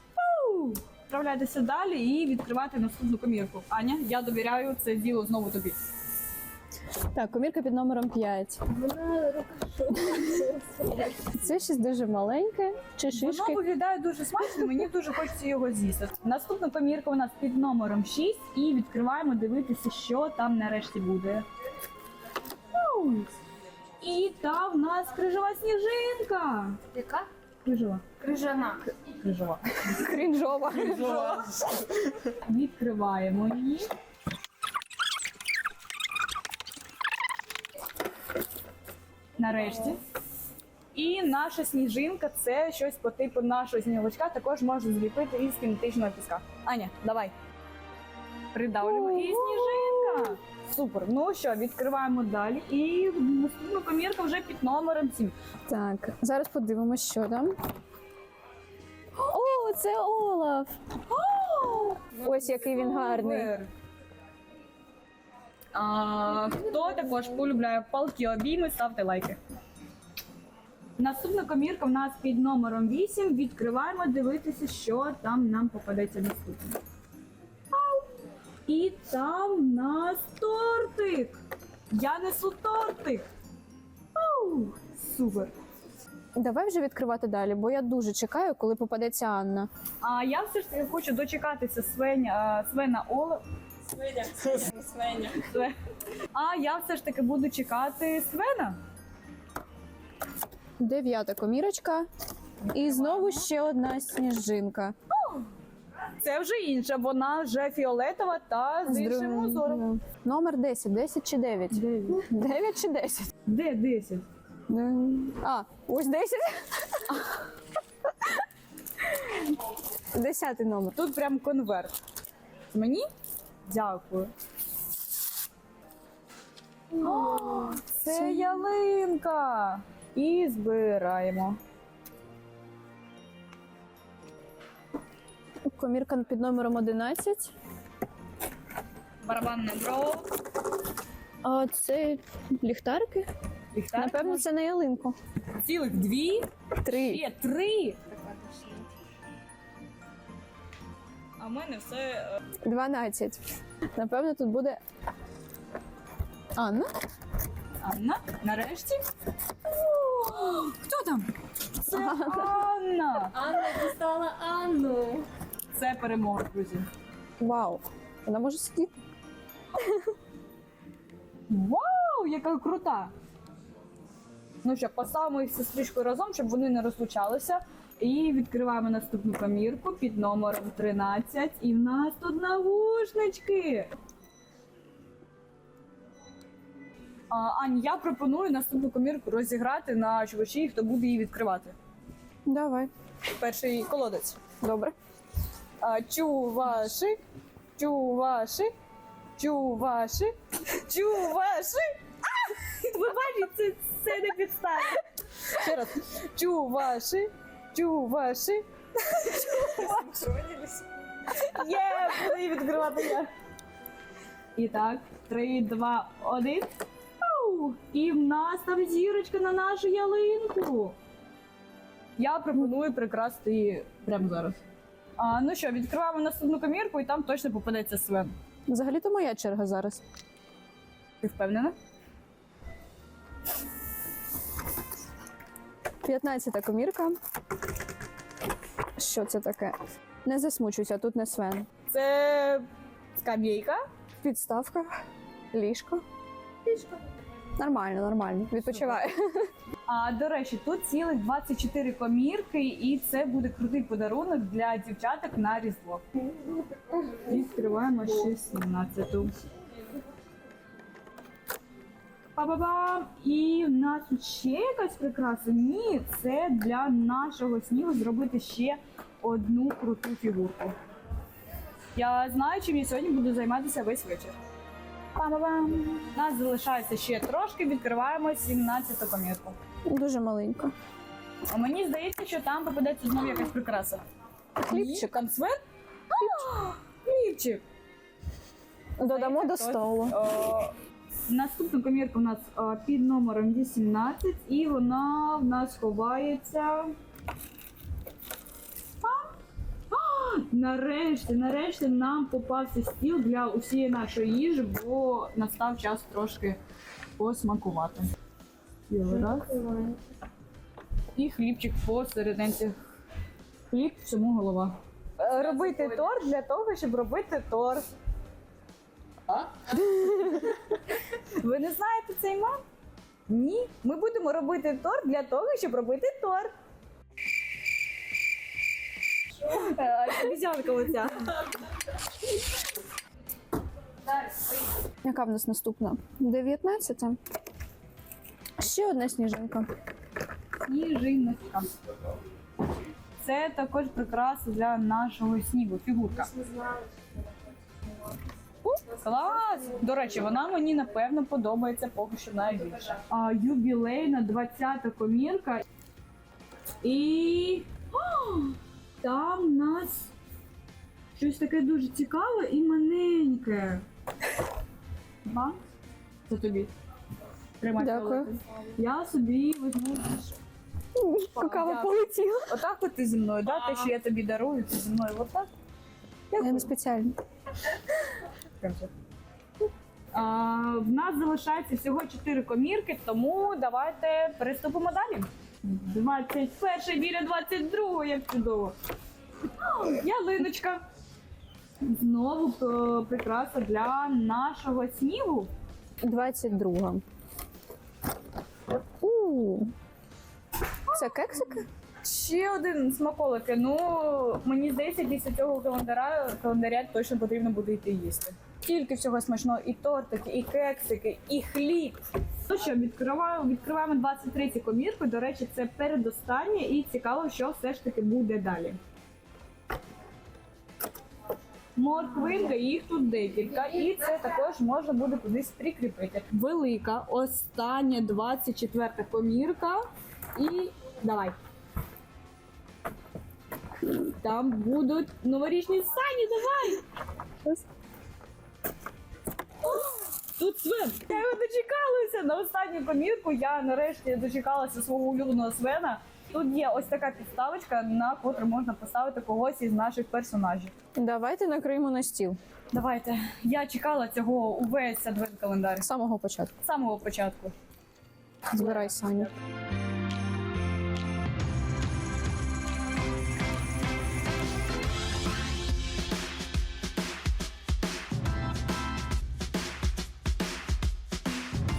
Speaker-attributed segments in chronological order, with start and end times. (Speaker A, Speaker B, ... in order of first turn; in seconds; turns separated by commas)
Speaker A: 0.2-5.8, Speaker B: 7.1-8.7, Speaker C: 8.7-11.3, Speaker B: 11.3-13.6, Speaker A: 13.1-21.4, Speaker A: 22.7-23.3, Speaker A: 24.0-26.8, Speaker C: 26.9-27.3, Speaker A: 27.6-28.2, Speaker C: 28.2-28.8, Speaker A: 28.9-29.8, Speaker B: 29.9-31.4, Speaker A: 30.7-33.9, Speaker A: 39.4-40.0, Speaker A: 40.9-47.3, Speaker A: 48.5-55.3, Speaker B: 48.8-50.4, Speaker B: 55.7-57.6, Speaker B: 59.2-60.8, Speaker A: 61.1-63.7, Speaker B: 62.2-63.5, Speaker A: 65.7-69.4, Speaker A: 71.0-76.8, Speaker A: 77.7-78.1, Speaker A: 78.7-81.4, Speaker A: 81.9-83.3, Speaker A: 84.2-85.5, Speaker B: 86.4-89.7, Speaker A: 90.0-93.4, Speaker A: 94.2-95.8, Speaker A: 96.3-98.8, Speaker B: 100.8-102.1, Speaker A: 102.6-103.5, Speaker B: 102.7-105.0, Speaker A: 105.1-105.5, Speaker A: 106.2-109.8, Speaker B: 108.9-113.3, Speaker A: 111.7-112.2, Speaker A: 113.5-114.2, Speaker B: 114.7-117.2, Speaker A: 117.1-117.4, Speaker B: 120.1-121.0, Speaker A: 121.0-122.0, Speaker A: 122.7-123.1, Speaker A: 123.7-124.3, Speaker A: 127.0-131.6, Speaker B: 127.0-128.6, Speaker B: 135.7-137.5, Speaker A: 139.2-140.3, Speaker B: 141.4-143.3, Speaker A: 143.7-144.5, Speaker B: 144.0-145.2, Speaker A: 145.6-148.0, Speaker B: 146.8-147.2, Speaker C: 148.1-148.9, Speaker A: 151.4-152.4, Speaker B: 152.6-153.4, Speaker B: 153.9-154.8, Speaker B: 156.6-156.9, Speaker A: 157.8-159.0, Speaker A: 159.6-161.3, Speaker A: 161.8-163.5, Speaker B: 161.9-162.6, Speaker C: 163.4-165.3, Speaker A: 165.7-166.9, Speaker B: 167.4-168.9, Speaker B: 169.8-170.1, Speaker A: 171.5-173.1, Speaker A: 174.6-183.9, Speaker A: 187.3-191.8, Speaker B: 192.5-192.9, Speaker A: 193.4-194.4, Speaker B: 194.6-195.0, Speaker A: 195.8-197.2, Speaker A: 197.8-198.7, Speaker A: 199.4-213.3, Speaker B: 209.5-210.1, Speaker A: 214.6-216.7, Speaker A: 217.2-220.9, Speaker A: 222.2-224.6, Speaker A: 225.2-228.3, Speaker B: 228.7-230.0, Speaker A: 231.2-231.7, Speaker B: 236.0-237.2, Speaker B: 239.0-241.7, Speaker A: 241.9-242.7, Speaker A: 243.2-243.8, Speaker B: 244.2-244.9, Speaker B: 245.5-246.0, Speaker B: 247.6-249.5, Speaker A: 248.6-249.0, Speaker A: 249.9-256.1, Speaker A: 257.1-259.3, Speaker A: 262.4-270.8, Speaker A: 272.0-274.4, Speaker A: 275.2-279.6, Speaker B: 279.9-280.7, Speaker A: 281.5-284.0, Speaker B: 284.6-285.1, Speaker A: 284.6-287.6, Speaker B: 286.2-286.4, Speaker B: 289.0-290.2, Speaker A: 289.0-290.7, Speaker A: 291.3-296.9, Speaker A: 299.0-299.3, Speaker A: 299.9-306.6, Speaker A: 307.2-308.1, Speaker A: 308.9-309.6, Speaker A: 311.1-312.8, Speaker A: 313.7-317.9, Speaker A: 319.4-320.5, Speaker B: 320.0-320.3, Speaker A: 321.2-322.6, Speaker A: 323.3-326.5, Speaker A: 329.4-331.5, Speaker B: 335.0-337.2, Speaker B: 338.6-339.7, Speaker A: 340.6-341.7, Speaker A: 343.2-346.3, Speaker C: 346.4-346.9, Speaker A: 348.6-355.6, Speaker A: 356.8-360.1, Speaker A: 361.2-363.8, Speaker A: 365.2-365.6, Speaker A: 366.3-366.7, Speaker A: 367.6-370.4, Speaker B: 367.8-368.3, Speaker B: 370.9-372.5, Speaker A: 371.4-375.5, Speaker A: 376.3-376.7, Speaker B: 376.4-377.2, Speaker A: 378.6-378.9, Speaker A: 380.1-388.7, Speaker A: 389.6-390.8, Speaker A: 391.8-395.5, Speaker B: 396.0-397.0, Speaker B: 399.0-399.7, Speaker A: 400.9-418.8, Speaker B: 400.9-401.6, Speaker A: 421.8-429.8, Speaker A: 430.4-431.4, Speaker A: 433.9-436.8, Speaker A: 439.6-450.7, Speaker B: 451.0-452.4, Speaker A: 452.7-455.9, Speaker B: 455.8-456.5, Speaker A: 456.6-457.5, Speaker B: 458.5-459.3, Speaker A: 458.6-459.3